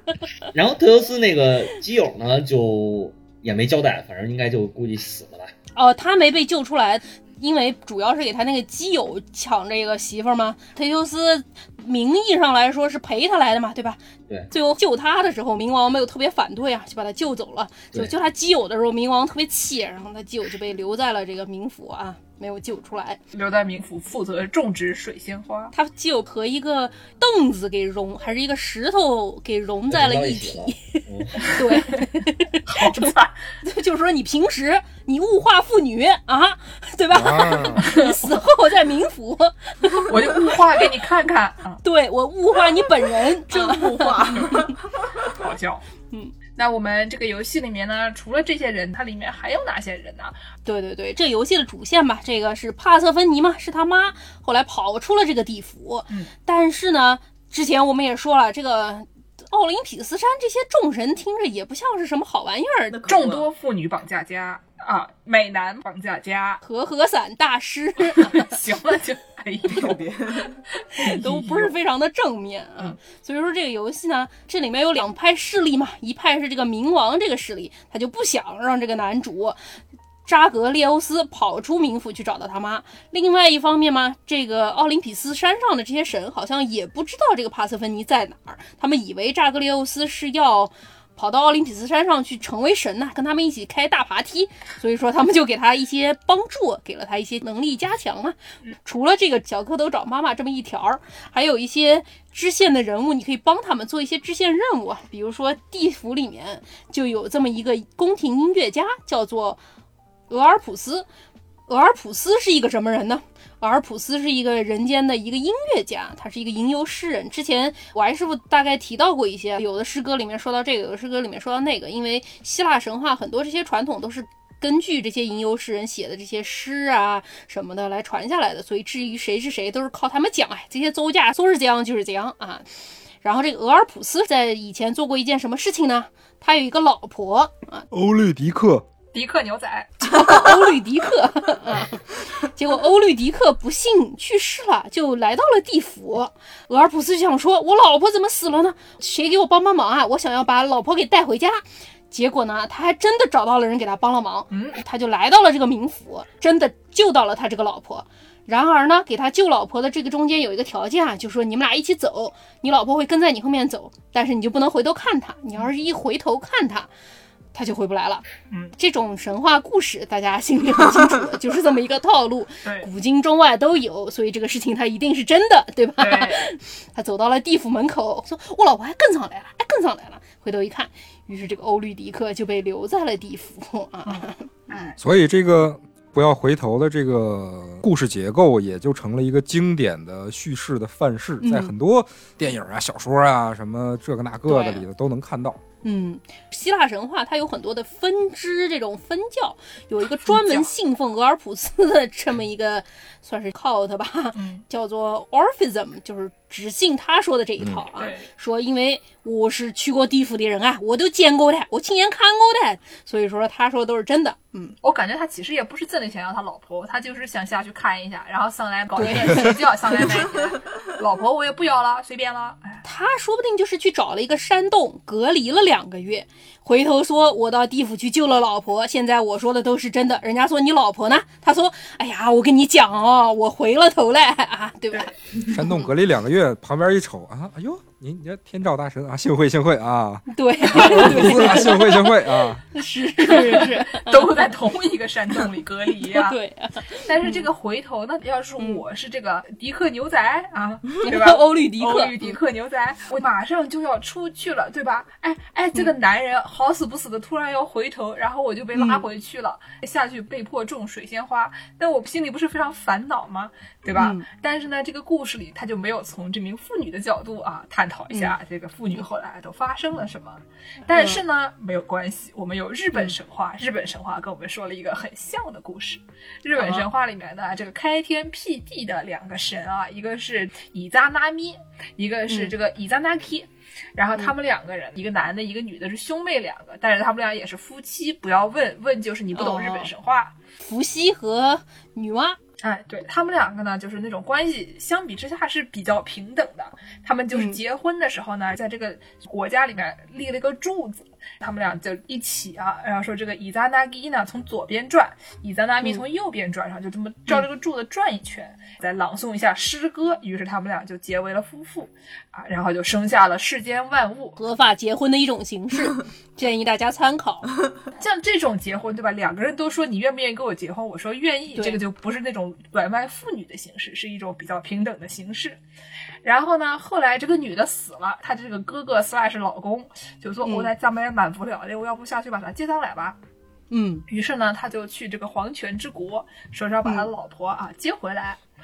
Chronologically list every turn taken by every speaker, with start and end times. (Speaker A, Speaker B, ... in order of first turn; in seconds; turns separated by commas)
Speaker A: 0.5-5.5, Speaker B: 5.8-23.2, Speaker C: 23.3-25.7, Speaker B: 25.7-33.1, Speaker A: 29.9-31.5, Speaker C: 31.4-32.1, Speaker C: 32.7-33.4, Speaker B: 33.6-40.6, Speaker D: 37.1-37.9, Speaker C: 37.8-38.2, Speaker C: 40.1-41.8, Speaker B: 41.8-44.7, Speaker E: 43.5-45.3, Speaker C: 45.3-45.8, Speaker C: 46.6-50.3, Speaker B: 50.6-63.0, Speaker E: 62.9-63.5, Speaker C: 63.1-66.6, Speaker B: 66.6-68.5, Speaker C: 68.2-70.0, Speaker E: 69.7-70.6, Speaker C: 71.0-71.7, Speaker B: 71.0-79.6, Speaker B: 80.3-109.6, Speaker B: 110.3-111.1, Speaker B: 111.7-132.7, Speaker B: 133.2-137.9, Speaker D: 137.9-138.9, Speaker C: 139.1-140.1, Speaker B: 140.0-166.9, Speaker C: 154.5-154.8, Speaker B: 167.5-168.2, Speaker C: 168.5-168.8, Speaker B: 168.8-184.5, Speaker C: 176.0-176.5, Speaker C: 184.1-184.9, Speaker D: 185.0-195.6, Speaker B: 191.4-191.7, Speaker B: 194.5-194.8, Speaker B: 195.8-214.8, Speaker C: 200.2-200.7, Speaker C: 204.3-204.6, Speaker D: 207.6-207.9, Speaker C: 208.0-208.3, Speaker C: 214.8-222.8, Speaker B: 219.0-219.6, Speaker B: 222.8-235.1, Speaker D: 235.4-242.6, Speaker B: 240.3-244.5, Speaker C: 243.2-246.4, Speaker B: 246.0-247.5, Speaker C: 247.0-290.3, Speaker B: 251.0-252.3, Speaker B: 258.7-259.1, Speaker B: 263.9-264.3, Speaker B: 270.9-271.2, Speaker B: 276.6-276.9, Speaker B: 282.3-282.5, Speaker B: 289.3-289.9, Speaker B: 290.6-292.4, Speaker C: 292.6-314.4, Speaker B: 297.3-297.6, Speaker B: 314.4-317.5, Speaker C: 318.0-325.6, Speaker B: 321.6-321.8, Speaker C: 326.2-333.2, Speaker B: 330.4-330.7, Speaker B: 333.7-334.1, Speaker C: 334.1-338.4